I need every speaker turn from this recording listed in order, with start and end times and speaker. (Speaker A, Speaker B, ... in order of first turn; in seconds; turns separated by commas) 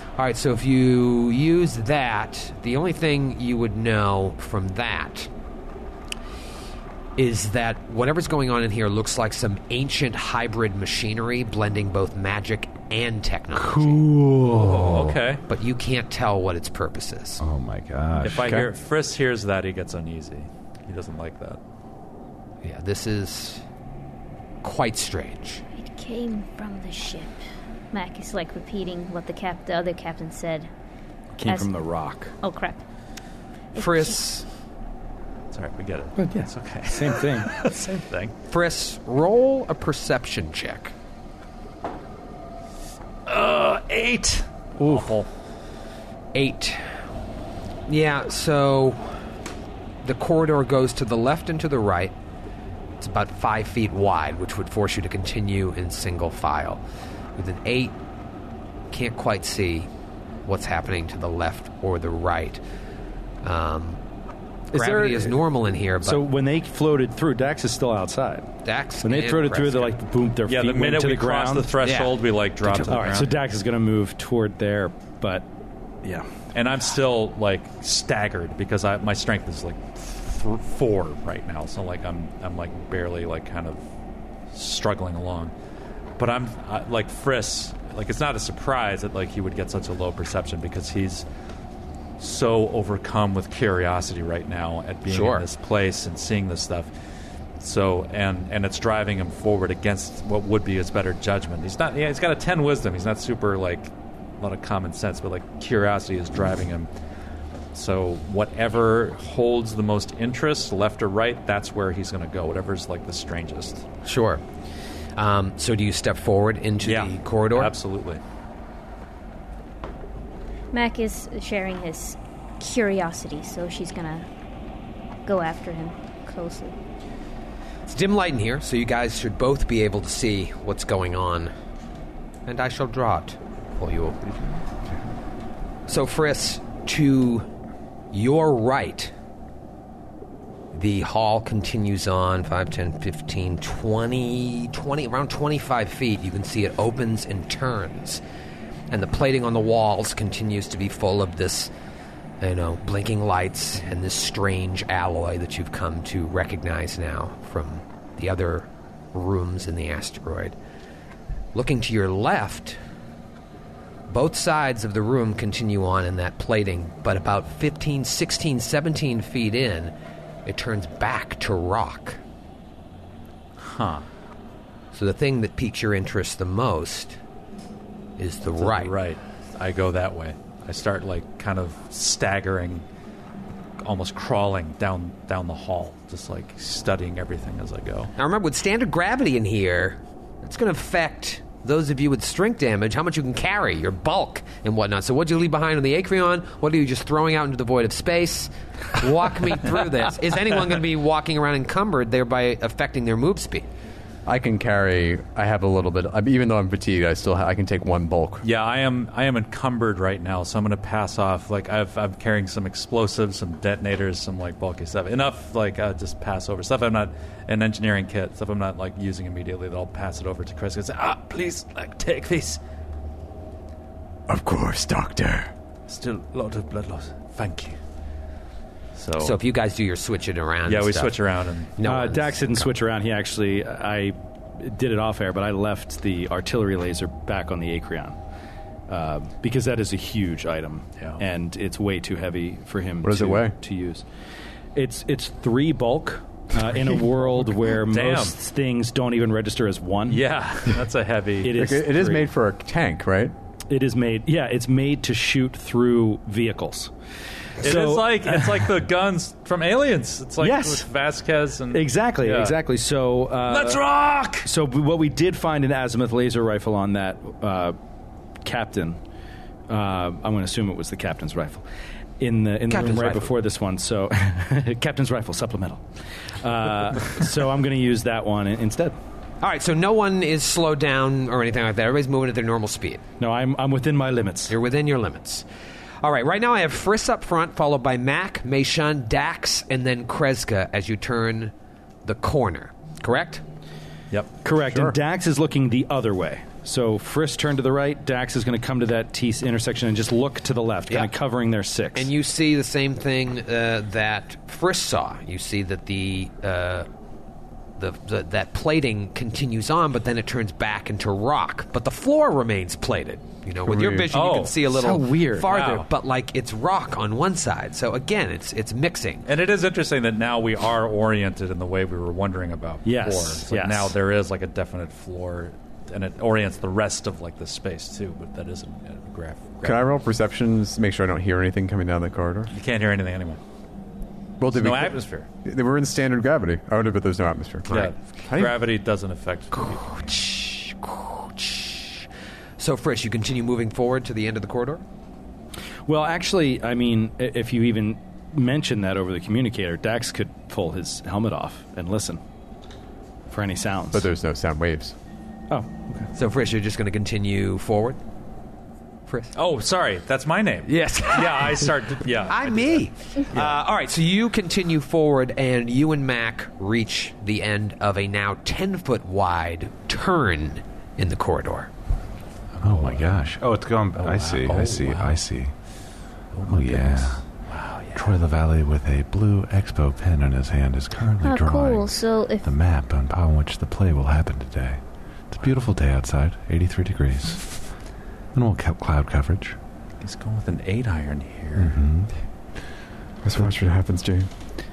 Speaker A: 0.1-5.3, Speaker A: 7.2-14.1, Speaker B: 13.5-15.2, Speaker C: 14.6-15.4, Speaker A: 15.5-17.4, Speaker B: 17.4-18.6, Speaker C: 18.2-21.6, Speaker A: 22.6-23.6, Speaker A: 24.6-25.6, Speaker D: 25.8-27.4, Speaker D: 27.9-30.7, Speaker E: 31.4-32.3, Speaker D: 31.4-31.7, Speaker D: 32.4-32.8, Speaker D: 33.7-34.2, Speaker A: 33.8-34.4, Speaker C: 35.5-38.3, Speaker E: 36.2-37.6, Speaker A: 38.5-40.9, Speaker C: 43.2-45.3, Speaker E: 44.8-45.2, Speaker A: 46.3-47.0, Speaker A: 47.9-49.3, Speaker A: 50.0-52.1, Speaker A: 53.0-56.8, Speaker A: 57.4-58.0, Speaker A: 58.9-59.9, Speaker A: 60.4-62.6, Speaker A: 63.4-64.0, Speaker E: 64.7-65.4, Speaker A: 64.7-66.2, Speaker E: 66.0-68.5, Speaker A: 68.6-69.9, Speaker E: 69.0-71.8, Speaker C: 70.5-73.3, Speaker A: 71.8-73.2, Speaker E: 72.8-75.5, Speaker C: 76.5-83.8, Speaker C: 84.5-85.5, Speaker C: 86.2-91.2, Speaker C: 92.2-96.9, Speaker A: 95.1-95.5, Speaker C: 97.6-106.9, Speaker C: 107.7-113.9, Speaker A: 114.0-114.4, Speaker A: 115.2-117.7, Speaker C: 116.8-118.2, Speaker D: 120.7-124.2, Speaker D: 125.2-126.7, Speaker A: 127.9-131.5, Speaker A: 132.4-134.5, Speaker A: 135.9-137.5, Speaker A: 138.1-139.1, Speaker A: 140.7-148.2, Speaker A: 148.9-151.7, Speaker A: 152.4-160.6, Speaker A: 161.5-162.8, Speaker A: 164.1-169.9, Speaker A: 170.4-172.2, Speaker C: 173.6-174.1, Speaker A: 174.9-177.2, Speaker A: 178.2-178.9, Speaker C: 178.6-182.8, Speaker C: 183.8-188.1, Speaker A: 188.2-203.7, Speaker F: 204.2-208.4, Speaker C: 208.4-222.6, Speaker F: 224.3-225.5, Speaker C: 225.9-227.8, Speaker C: 228.9-229.3, Speaker A: 229.2-231.2, Speaker C: 230.7-231.7, Speaker A: 231.8-232.4, Speaker E: 231.8-238.2, Speaker E: 238.9-244.0, Speaker F: 243.0-243.5, Speaker E: 244.7-250.2, Speaker C: 247.9-248.3, Speaker C: 250.1-251.5, Speaker E: 251.4-252.3, Speaker F: 251.5-253.3, Speaker E: 253.7-256.9, Speaker E: 257.6-258.7, Speaker C: 257.6-262.6, Speaker E: 260.4-260.9, Speaker E: 261.7-263.8, Speaker C: 263.5-264.5, Speaker E: 264.4-267.8, Speaker E: 268.4-269.0, Speaker E: 269.7-271.6, Speaker E: 272.2-275.8, Speaker A: 272.7-273.3, Speaker E: 276.4-279.0, Speaker A: 279.4-283.0, Speaker E: 283.2-284.5, Speaker A: 284.5-285.4, Speaker A: 286.0-291.5, Speaker A: 292.0-293.4, Speaker E: 294.4-302.1, Speaker A: 301.9-306.9, Speaker A: 307.8-319.2, Speaker F: 313.6-314.1, Speaker C: 314.1-314.6, Speaker E: 314.6-315.5, Speaker C: 315.4-315.9, Speaker C: 319.2-329.9, Speaker E: 322.8-323.9, Speaker F: 329.6-332.5, Speaker C: 332.5-333.4, Speaker F: 334.4-338.5, Speaker C: 334.5-335.3, Speaker C: 337.7-340.0, Speaker A: 339.5-342.1, Speaker A: 342.6-344.8, Speaker E: 345.9-352.2, Speaker E: 353.3-354.1, Speaker F: 353.9-354.9, Speaker E: 355.5-356.1, Speaker A: 356.1-358.0, Speaker A: 359.1-359.3, Speaker C: 359.3-363.6, Speaker A: 360.6-371.7, Speaker C: 372.5-373.3, Speaker B: 372.6-375.5, Speaker C: 373.9-375.2, Speaker C: 376.3-378.1, Speaker B: 376.5-377.2, Speaker B: 377.9-387.4, Speaker D: 381.2-382.5, Speaker B: 388.3-389.6, Speaker C: 390.0-391.8, Speaker B: 391.6-392.1, Speaker F: 393.2-394.3